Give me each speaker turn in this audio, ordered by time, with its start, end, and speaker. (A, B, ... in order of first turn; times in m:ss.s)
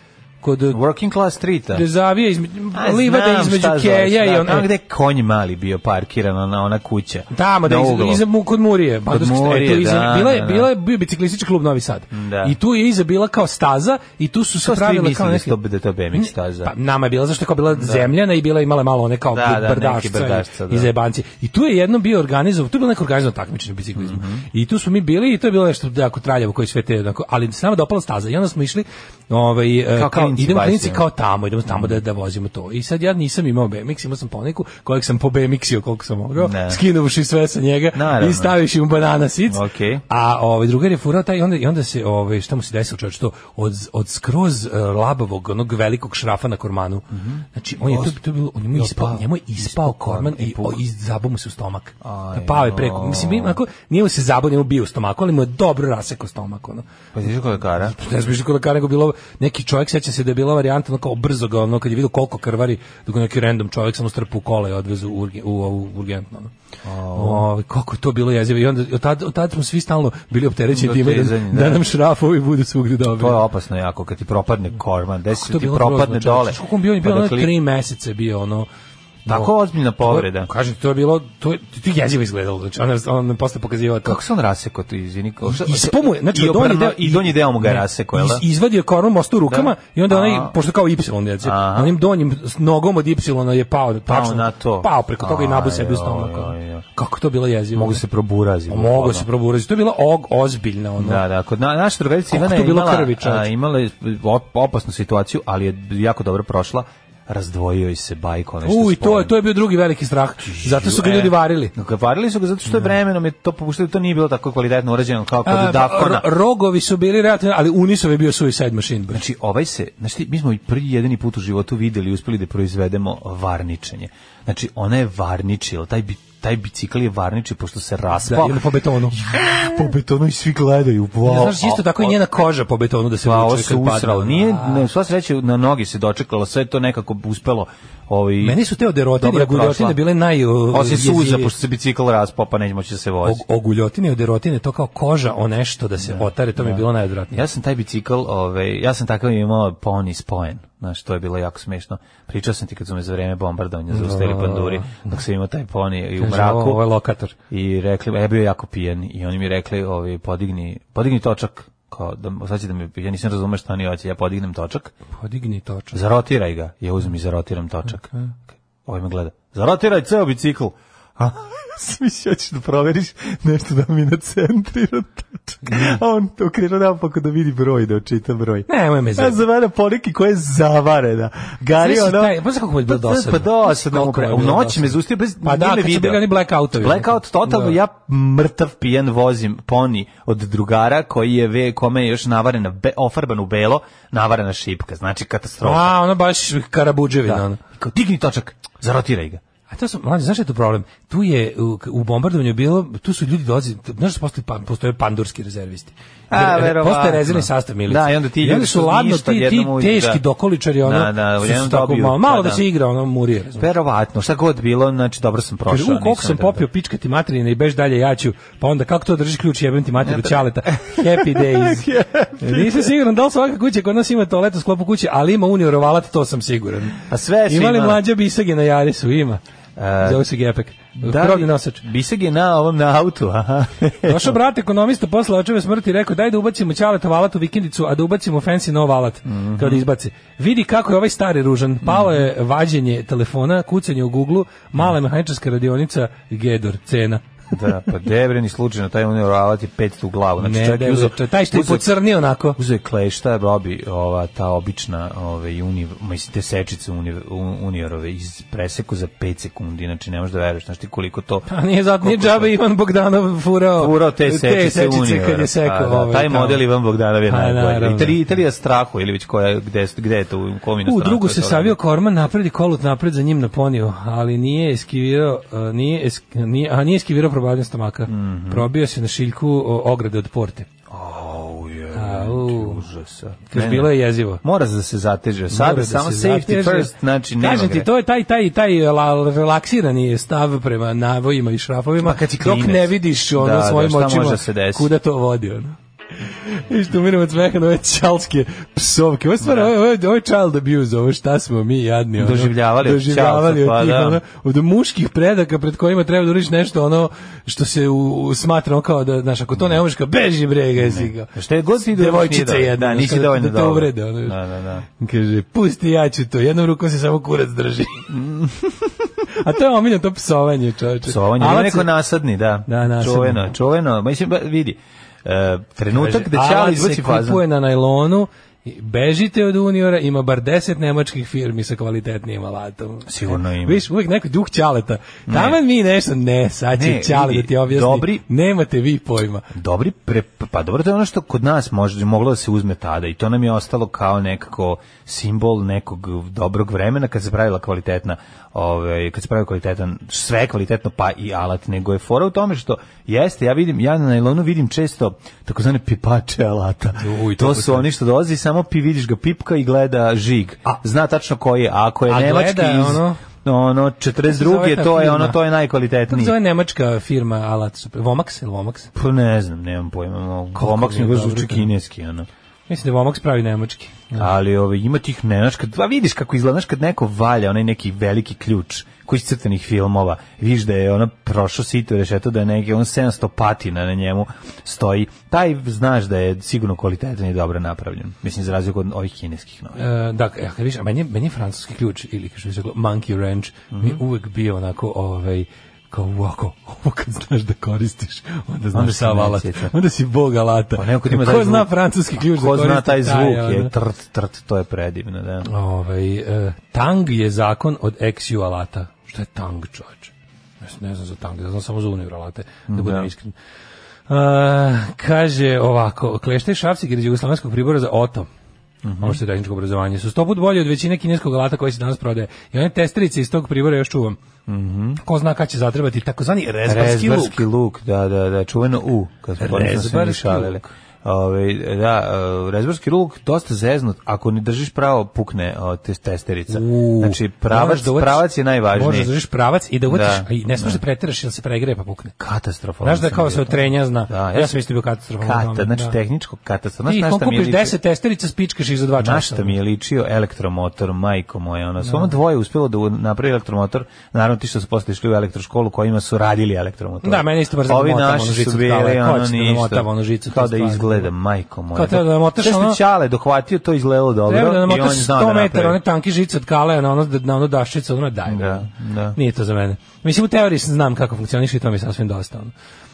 0:00.4-0:00.8 A
0:00.7-0:01.8 B
0:01.7-0:04.7 A
0:02.7-0:08.2 B
0:07.3-0:15.6 A
0:09.1-0:10.7 B
0:12.1-0:12.6 B
0:14.6-0:16.7 B
0:16.1-0:56.8 A
0:17.7-0:18.1 B
0:19.3-0:20.9 B
0:24.0-0:24.4 B
0:29.9-0:31.1 B
0:31.7-0:32.0 B
0:36.4-0:36.8 B
0:37.9-0:38.6 B
0:39.5-0:40.0 B
0:47.1-0:48.2 B
0:48.7-0:50.8 B
0:52.0-0:53.6 B
0:57.1-0:57.9 B
0:57.8-1:06.5 A
1:06.8-1:07.4 B
1:07.1-1:13.4 A
1:10.7-1:11.8 B
1:13.1-1:17.5 B
1:15.3-1:18.7 A
1:19.2-1:19.5 A
1:19.2-1:20.5 B
1:20.0-1:24.2 A
1:24.0-1:28.4 B
1:25.4-1:38.0 A
1:29.5-1:30.6 B
1:31.4-1:32.0 B
1:34.1-1:36.8 B
1:37.7-1:39.3 B
1:38.7-1:41.2 A
1:41.0-1:49.3 B
1:42.3-1:43.5 A
1:48.6-1:51.7 A
1:50.4-1:56.2 B
1:55.4-1:59.2 A
1:59.1-2:12.2 B
2:08.2-2:09.2 A
2:11.2-2:14.8 A
2:13.2-2:18.6 B
2:18.4-2:21.5 A
2:19.2-2:20.0 B
2:20.7-2:23.4 B
2:23.2-2:27.4 A
2:26.0-2:36.8 B
2:33.9-2:35.1 A
2:36.2-2:37.3 A
2:37.5-2:44.9 B
2:45.2-2:46.0 A
2:45.9-2:48.1 B
2:48.8-3:15.9 B
2:55.7-2:56.0 A
2:58.7-2:59.4 A
3:01.8-3:07.8 A
3:15.6-3:17.6 A
3:17.2-3:19.4 B
3:19.7-3:33.7 A
3:26.3-3:30.2 B
3:30.8-3:32.6 B
3:33.6-3:36.6 B
3:35.7-3:41.9 A
3:40.0-3:42.9 B
3:42.4-3:49.4 A
3:47.1-3:48.0 B
3:49.8-3:50.2 B
3:50.0-3:51.8 A
3:51.0-3:54.4 B
3:54.0-4:07.2 A
3:59.2-3:59.8 B
4:01.8-4:02.2 B
4:07.5-4:12.0 B
4:10.4-4:12.6 A
4:12.6-4:21.5 B
4:21.5-4:26.6 A
4:22.0-4:22.5 B
4:23.8-4:31.8 B
4:27.3-4:28.2 A
4:30.8-4:40.7 A
4:38.1-4:38.7 B
4:40.9-4:47.9 B
4:41.9-4:42.8 A
4:43.5-4:44.4 A
4:45.5-4:55.8 A
4:52.0-4:54.9 B
4:56.4-5:11.3 A
4:59.4-4:59.7 B
5:02.2-5:04.2 B
5:10.8-5:14.8 B
5:11.9-5:14.4 A
5:15.0-5:18.1 A
5:18.1-5:18.9 B
5:19.3-5:21.9 A
5:21.0-5:27.4 B
5:22.7-5:23.4 A
5:25.9-5:39.4 A
5:33.1-5:33.8 B
5:35.3-5:35.6 B
5:36.7-5:38.2 B
5:39.5-6:06.4 B
5:57.0-5:57.9 A
6:02.1-6:03.2 A
6:04.3-6:05.4 A
6:06.1-6:08.9 A
6:08.9-6:12.3 B
6:10.5-6:11.7 A
6:12.7-6:14.2 A
6:14.2-6:29.8 B
6:29.7-6:43.7 A
6:33.7-6:34.0 B
6:38.7-6:39.7 B
6:40.8-6:45.5 B
6:45.4-6:53.3 A
6:52.7-6:53.1 B
6:54.1-6:58.3 A
6:58.8-6:59.2 B
6:59.0-7:04.2 A
7:04.5-7:05.0 B
7:05.0-7:07.4 A
7:06.6-7:19.1 B
7:09.4-7:10.6 A
7:16.5-7:22.2 A
7:19.9-7:20.8 B
7:22.2-7:24.6 B
7:22.8-7:26.0 A
7:25.2-7:27.8 B
7:26.8-7:29.6 A
7:29.0-7:45.8 B
7:31.8-7:32.1 A
7:37.0-7:41.1 A
7:41.7-7:42.8 A
7:44.2-7:52.5 A
7:48.3-7:49.2 B